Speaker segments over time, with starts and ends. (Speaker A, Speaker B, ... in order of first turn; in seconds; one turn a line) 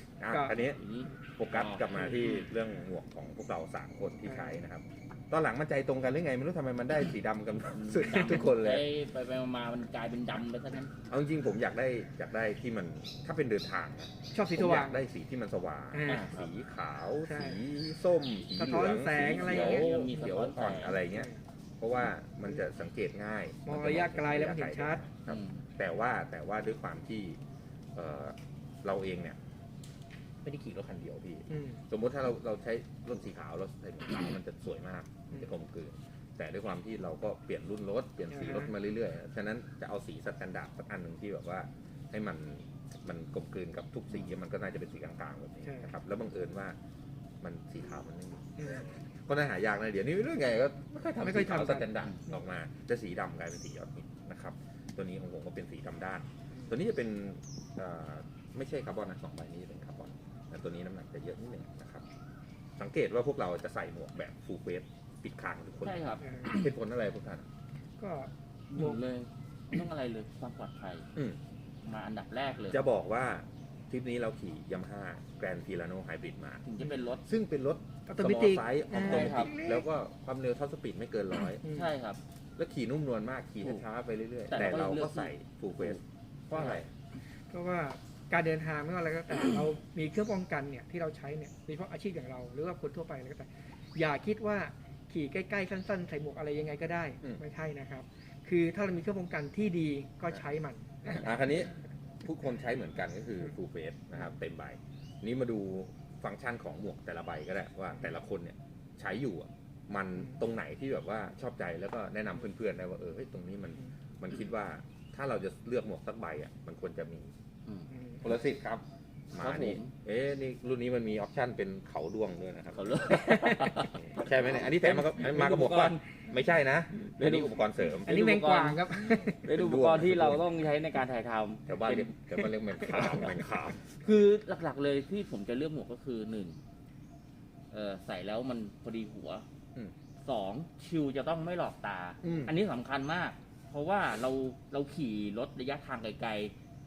Speaker A: 0.2-0.8
Speaker B: 0.3-0.6
Speaker C: 0.6-2.5
Speaker A: 1.4-8.9
Speaker B: 4.2-4.6
Speaker C: 7.7-10.9
Speaker A: 11.1-27.4
Speaker B: 14.3-15.0
Speaker B: 15.9-16.3
Speaker C: 16.1-16.5
Speaker B: 17.2-17.6
Speaker B: 18.5-20.0
Speaker C: 19.2-21.0
Speaker B: 21.1-21.4
Speaker B: 23.6-25.0
Speaker C: 25.3-25.6
Speaker A: 27.9-29.4
Speaker A: 30.4-46.8
Speaker B: 31.5-31.8
Speaker B: 38.3-38.7
Speaker B: 45.6-45.9
Speaker A: 47.4-62.0
Speaker B: 48.6-48.8
Speaker B: 51.2-51.9
Speaker A: 62.8-67.5
Speaker C: 65.8-66.2
Speaker B: 66.2-66.6
Speaker B: 68.0-69.0
Speaker C: 68.7-71.1
Speaker C: 71.8-72.8
Speaker A: 72.7-76.7
Speaker C: 76.6-77.2
Speaker A: 77.2-81.6
Speaker B: 78.0-79.9
Speaker C: 79.0-79.5
Speaker C: 81.6-82.2
Speaker B: 81.6-81.9
Speaker A: 82.6-86.9
Speaker C: 84.5-86.9
Speaker B: 87.5-101.3
Speaker A: 101.0-117.3
Speaker B: 117.9-118.3
Speaker A: 118.2-128.1
Speaker C: 119.3-119.9
Speaker C: 122.7-126.2
Speaker B: 123.1-123.7
Speaker C: 127.0-133.4
Speaker B: 128.0-129.5
Speaker A: 129.4-130.5
Speaker A: 131.7-134.0
Speaker C: 133.9-136.6
Speaker C: 137.7-139.4
Speaker C: 140.2-146.5
Speaker A: 142.2-142.5